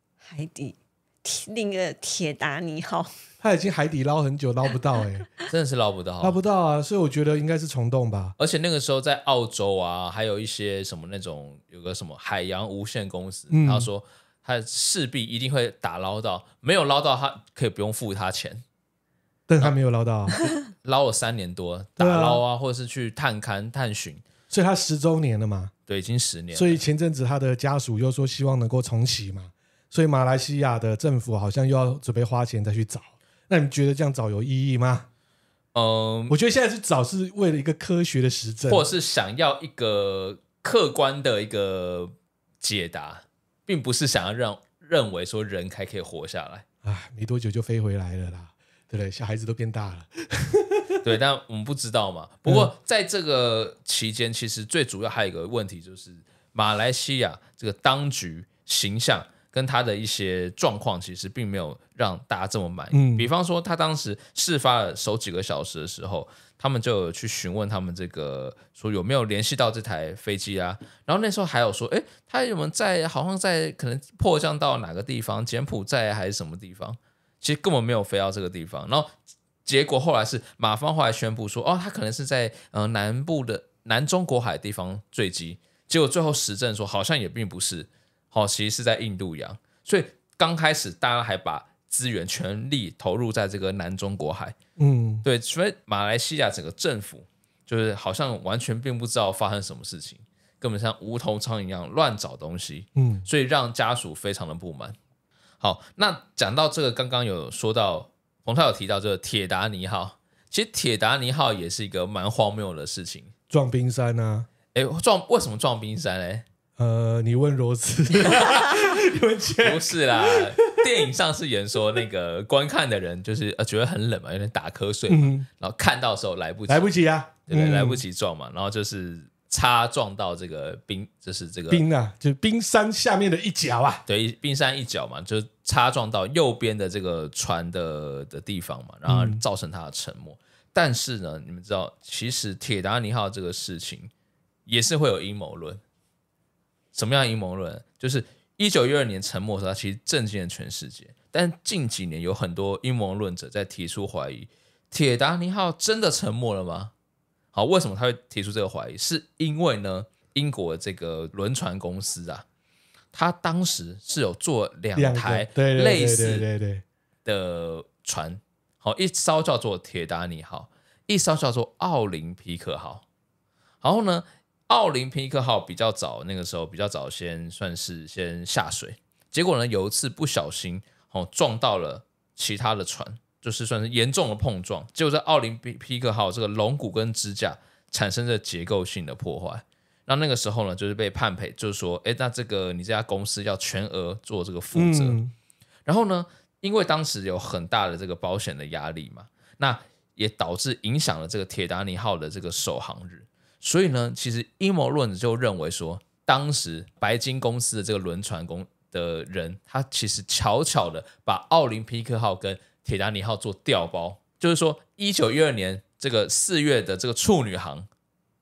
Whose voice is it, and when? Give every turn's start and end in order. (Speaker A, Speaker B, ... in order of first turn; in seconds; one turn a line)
Speaker A: 0.3-3.1
Speaker B: 3.4-5.3
Speaker C: 5.5-6.4
Speaker B: 6.2-8.4
Speaker C: 8.4-18.6
Speaker B: 13.5-13.9
Speaker B: 19.5-20.4
Speaker C: 20.8-24.2
Speaker B: 22.0-22.4
Speaker B: 24.5-25.7
Speaker C: 25.9-26.8
Speaker B: 26.5-35.1
Speaker C: 35.7-36.4
Speaker B: 36.3-38.9
Speaker C: 38.7-46.6
Speaker B: 46.8-51.0
Speaker C: 51.0-79.1
Speaker B: 52.5-52.7
Speaker B: 62.9-63.3
Speaker C: 79.7-94.6
Speaker B: 94.8-95.2
Speaker C: 95.2-105.0
Speaker B: 103.0-103.3
Speaker C: 105.6-113.3
Speaker B: 113.5-114.5
Speaker C: 114.7-116.5
Speaker B: 116.8-121.1
Speaker C: 119.6-126.9
Speaker B: 125.1-125.5
Speaker B: 126.7-128.0
Speaker C: 127.5-131.8
Speaker B: 131.7-134.0
Speaker C: 134.1-144.1
Speaker B: 139.1-139.4
Speaker C: 144.7-145.8
Speaker C: 146.9-156.9
Speaker C: 157.5-162.4
Speaker C: 163.1-166.5
Speaker B: 164.9-166.8
Speaker C: 167.2-173.0
Speaker C: 173.8-195.2
Speaker B: 194.7-195.3
Speaker C: 195.9-217.9